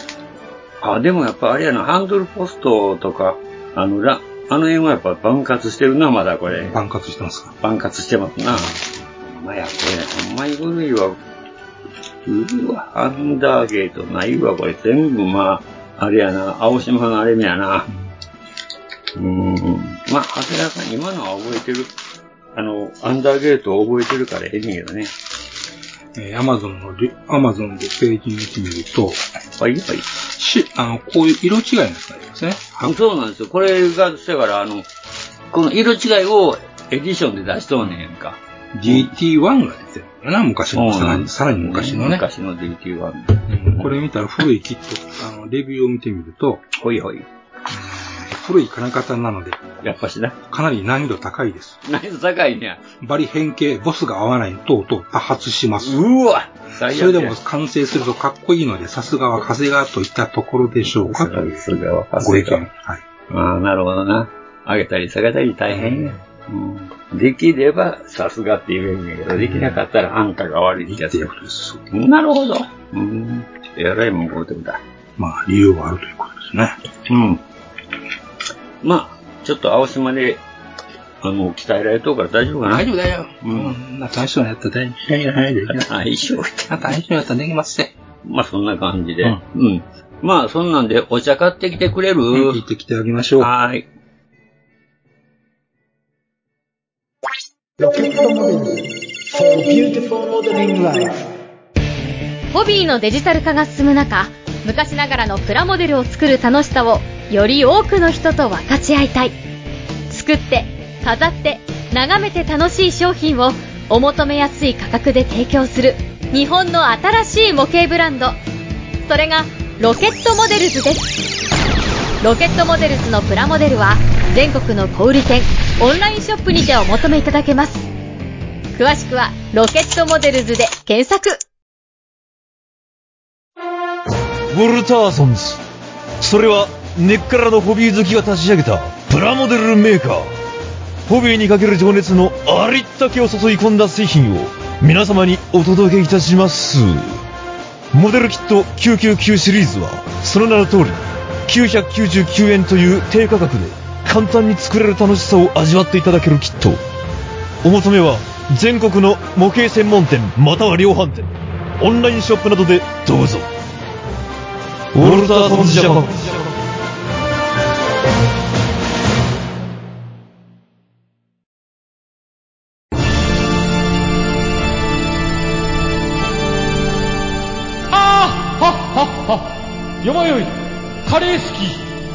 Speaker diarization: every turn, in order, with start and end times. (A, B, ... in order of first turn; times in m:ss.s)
0:00.8-0:06.8 A
0:06.5-0:07.6 B
0:07.6-0:11.2 A
0:08.5-0:08.8 B
0:12.2-0:17.9 A
0:19.2-0:21.9 A
0:22.6-0:25.1 A
0:26.2-0:29.2 B
0:29.6-0:30.1 A
0:30.2-0:33.0 B
0:32.8-0:34.9 A
0:35.5-0:39.1 A
0:38.7-0:42.3 B
0:40.7-0:44.0 A
0:43.5-0:46.6 B
0:46.8-0:47.3 A
0:47.7-0:49.8 B
0:49.8-0:50.4 A
0:50.5-0:51.8 B
0:51.9-0:52.8 A
0:53.0-0:56.0 B
0:55.8-0:57.4 A
0:56.9-1:01.7 B
1:00.9-1:02.7 A
1:02.2-1:03.0 B
1:03.3-1:11.3 A
1:05.7-1:06.2 B
1:09.4-1:09.8 B
1:10.8-1:11.9 B
1:11.9-1:14.8 A
1:15.2-1:16.8 B
1:17.1-1:17.4 A
1:18.8-1:20.4 A
1:21.2-1:22.9 A
1:22.7-1:25.9 B
1:23.4-1:23.8 A
1:25.7-1:27.0 A
1:26.7-1:27.9 B
1:28.2-1:32.6 A
1:32.3-1:33.5 B
1:33.4-1:33.9 A
1:42.5-1:49.4 C
1:50.1-1:58.4 C
1:59.1-2:01.1 C
2:02.2-2:07.9 C
2:08.8-2:11.4 C
2:14.5-2:15.6 D
2:16.2-2:20.3 D
2:21.1-2:27.2 D
2:27.9-2:36.8 D
2:37.6-2:43.5 D
2:44.9-2:46.4 D
2:57.9-3:00.5 E
3:01.0-3:01.8 E